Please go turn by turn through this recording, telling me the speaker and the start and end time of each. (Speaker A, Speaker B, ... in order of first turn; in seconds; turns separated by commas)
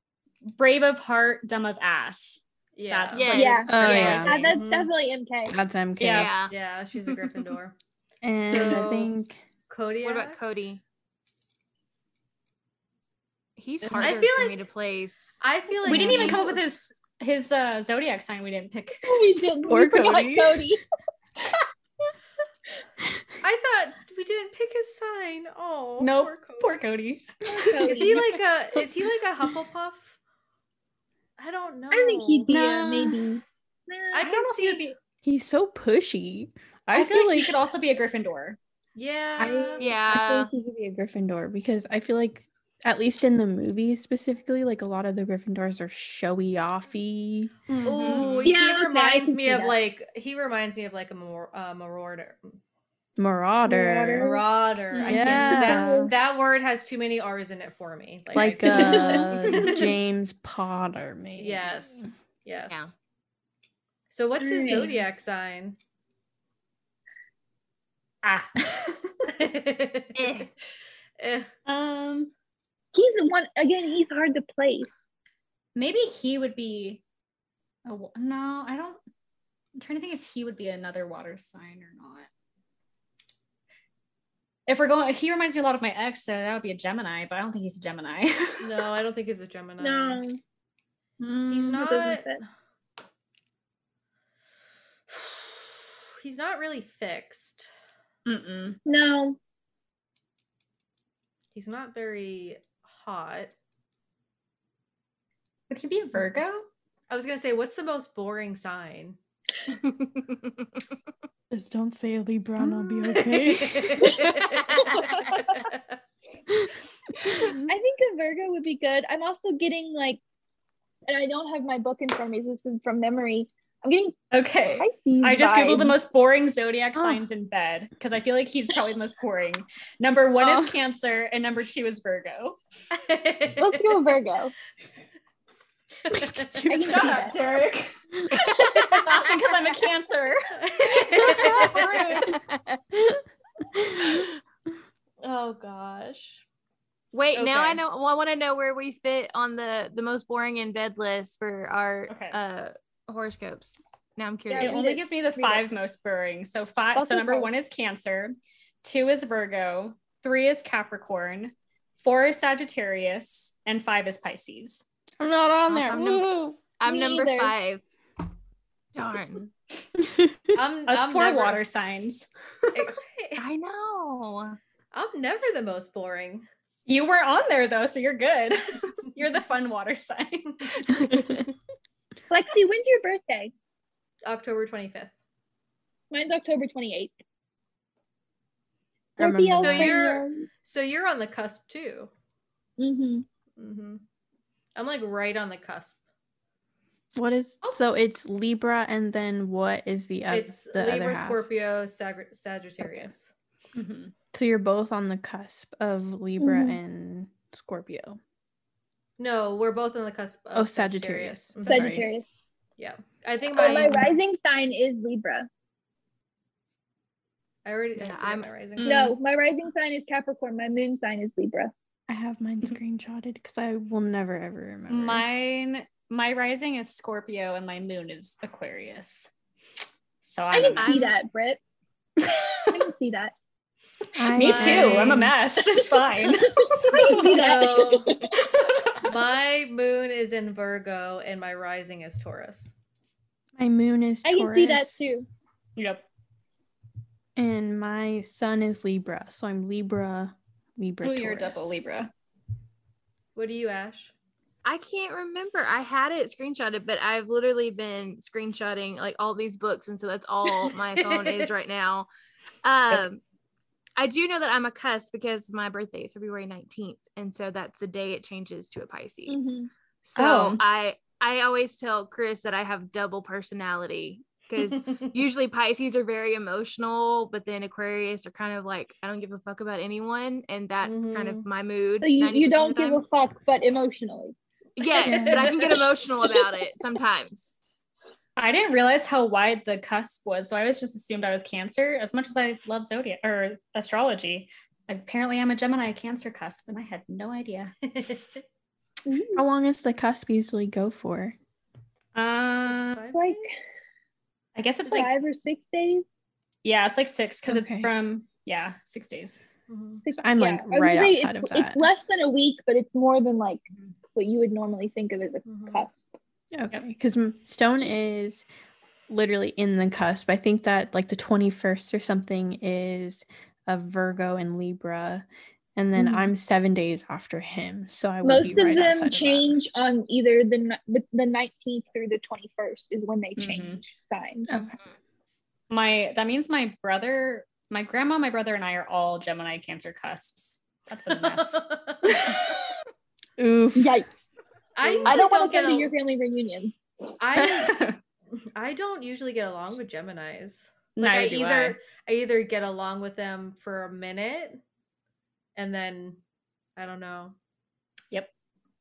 Speaker A: 0.5-4.6, Speaker B: 2.8-3.3, Speaker C: 3.1-4.3, Speaker D: 3.3-5.6, Speaker E: 3.7-4.3, Speaker B: 3.9-4.9, Speaker E: 5.5-6.4, Speaker A: 6.0-6.3, Speaker C: 6.1-6.5, Speaker B: 6.5-7.7, Speaker E: 8.2-9.4, Speaker B: 8.4-9.1, Speaker B: 9.7-10.4, Speaker C: 10.0-10.8, Speaker C: 13.6-15.3, Speaker A: 13.8-14.2, Speaker B: 14.0-14.6, Speaker B: 15.4-16.6, Speaker A: 15.8-19.4, Speaker D: 19.0-20.8, Speaker E: 19.6-20.8, Speaker B: 23.4-26.8, Speaker A: 26.0-28.1, Speaker D: 27.4-28.3, Speaker B: 27.8-30.1, Speaker B: 31.4-32.5, Speaker D: 31.9-34.9, Speaker E: 32.5-33.1, Speaker B: 34.1-34.9, Speaker E: 35.2-37.5, Speaker A: 36.9-38.6, Speaker B: 39.0-39.9, Speaker E: 39.4-47.5, Speaker C: 39.8-40.5, Speaker A: 47.7-48.5, Speaker B: 47.8-52.6, Speaker C: 47.8-48.5, Speaker D: 48.4-49.8, Speaker E: 53.2-54.3, Speaker D: 53.7-54.4, Speaker B: 54.2-59.7, Speaker E: 54.9-56.1, Speaker D: 55.0-56.1, Speaker E: 58.3-62.1, Speaker D: 58.7-59.2, Speaker B: 61.4-62.9, Speaker B: 64.1-65.8, Speaker D: 64.4-65.0, Speaker A: 68.2-69.0, Speaker B: 69.2-70.2, Speaker C: 70.1-70.5, Speaker B: 71.2-71.5, Speaker A: 71.7-72.3, Speaker D: 72.9-74.9, Speaker A: 75.8-77.0, Speaker A: 77.8-79.0, Speaker A: 79.8-82.3, Speaker A: 84.7-88.8, Speaker B: 88.6-90.2, Speaker D: 89.8-90.4, Speaker A: 91.2-91.9, Speaker B: 91.5-92.3, Speaker D: 91.8-92.4, Speaker B: 95.1-95.5, Speaker B: 96.2-97.7, Speaker A: 98.2-98.8, Speaker D: 98.8-99.4, Speaker B: 101.5-103.5, Speaker A: 105.7-106.7, Speaker B: 107.1-109.2, Speaker C: 109.8-110.7, Speaker E: 111.5-114.3, Speaker B: 113.1-114.8, Speaker C: 113.9-115.6, Speaker D: 114.9-115.5, Speaker E: 117.3-117.7, Speaker D: 117.6-120.2, Speaker D: 121.1-124.2, Speaker A: 124.3-132.6, Speaker D: 124.8-126.0, Speaker E: 126.9-127.2, Speaker E: 130.4-130.8, Speaker B: 132.9-134.2, Speaker D: 133.6-134.5, Speaker E: 136.1-137.2, Speaker D: 136.7-137.4, Speaker A: 136.8-142.4, Speaker B: 140.6-141.9, Speaker C: 141.8-142.8, Speaker E: 143.8-144.2, Speaker B: 145.2-146.4, Speaker C: 147.1-154.8, Speaker B: 147.3-147.8, Speaker A: 152.1-152.4, Speaker D: 154.5-155.7, Speaker A: 154.5-164.8, Speaker D: 156.9-157.5, Speaker E: 165.2-166.6, Speaker C: 165.7-167.9, Speaker D: 166.8-167.5, Speaker C: 168.9-169.5, Speaker E: 170.0-170.6, Speaker B: 170.5-171.6, Speaker A: 170.9-172.3, Speaker B: 172.7-173.4, Speaker C: 173.4-174.6, Speaker B: 174.9-176.4, Speaker A: 176.9-181.4, Speaker D: 182.3-183.5, Speaker B: 184.2-185.1, Speaker D: 186.1-187.2, Speaker D: 189.2-190.5, Speaker E: 189.2-189.9, Speaker B: 189.6-192.1, Speaker D: 192.8-193.2, Speaker B: 193.6-194.0, Speaker B: 194.7-196.0, Speaker E: 197.1-201.4, Speaker B: 200.3-203.3, Speaker E: 202.8-203.1, Speaker A: 203.7-204.1, Speaker E: 204.3-208.2, Speaker D: 206.4-206.8, Speaker B: 209.2-212.1, Speaker E: 210.5-212.2, Speaker D: 211.7-212.2, Speaker B: 212.8-214.1, Speaker D: 213.6-215.5, Speaker C: 213.6-214.0, Speaker B: 217.6-219.1, Speaker C: 217.9-218.5, Speaker A: 218.8-219.2, Speaker D: 218.8-221.7, Speaker E: 222.1-225.2, Speaker A: 224.9-229.3, Speaker A: 230.2-231.1, Speaker D: 230.5-231.6, Speaker C: 230.8-231.1, Speaker D: 232.7-233.3, Speaker E: 234.1-235.3, Speaker A: 234.3-237.5, Speaker B: 234.4-235.3, Speaker D: 236.6-238.5, Speaker B: 237.1-238.2, Speaker A: 238.4-239.0, Speaker B: 239.0-242.7, Speaker E: 243.6-245.1, Speaker D: 244.2-245.2, Speaker A: 245.8-246.0, Speaker E: 247.3-251.7, Speaker A: 251.0-252.1, Speaker B: 253.3-254.1, Speaker C: 254.6-262.1, Speaker B: 260.6-261.5, Speaker C: 262.6-263.2, Speaker C: 264.0-283.0, Speaker D: 269.3-269.7, Speaker A: 270.1-270.6, Speaker B: 274.6-275.1, Speaker B: 280.8-281.4, Speaker D: 282.0-284.3, Speaker C: 284.8-287.6, Speaker B: 284.9-285.9, Speaker E: 285.0-285.5, Speaker A: 288.4-297.7, Speaker B: 297.8-298.4, Speaker D: 299.1-299.4, Speaker E: 299.4-301.4, Speaker A: 302.1-303.0, Speaker B: 302.6-303.5, Speaker D: 303.1-303.6, Speaker A: 304.6-305.1, Speaker D: 304.8-306.0, Speaker A: 306.6-309.4, Speaker E: 307.5-307.9, Speaker B: 309.7-310.0, Speaker D: 310.0-313.6, Speaker E: 310.2-311.9, Speaker D: 314.1-316.0, Speaker B: 315.4-315.8, Speaker E: 316.5-318.4, Speaker E: 319.1-329.6, Speaker A: 325.9-326.3, Speaker D: 328.2-334.5, Speaker A: 333.4-333.8, Speaker E: 334.5-334.7, Speaker C: 334.5-334.9, Speaker A: 335.7-341.6, Speaker B: 341.1-342.5, Speaker A: 342.1-342.4, Speaker E: 343.4-344.0, Speaker D: 343.7-344.1, Speaker B: 344.8-345.9, Speaker D: 345.0-346.8, Speaker B: 347.2-347.8, Speaker E: 347.4-347.7, Speaker A: 347.5-348.0, Speaker B: 348.6-354.6, Speaker A: 351.0-351.8, Speaker B: 355.6-356.2, Speaker B: 356.8-357.3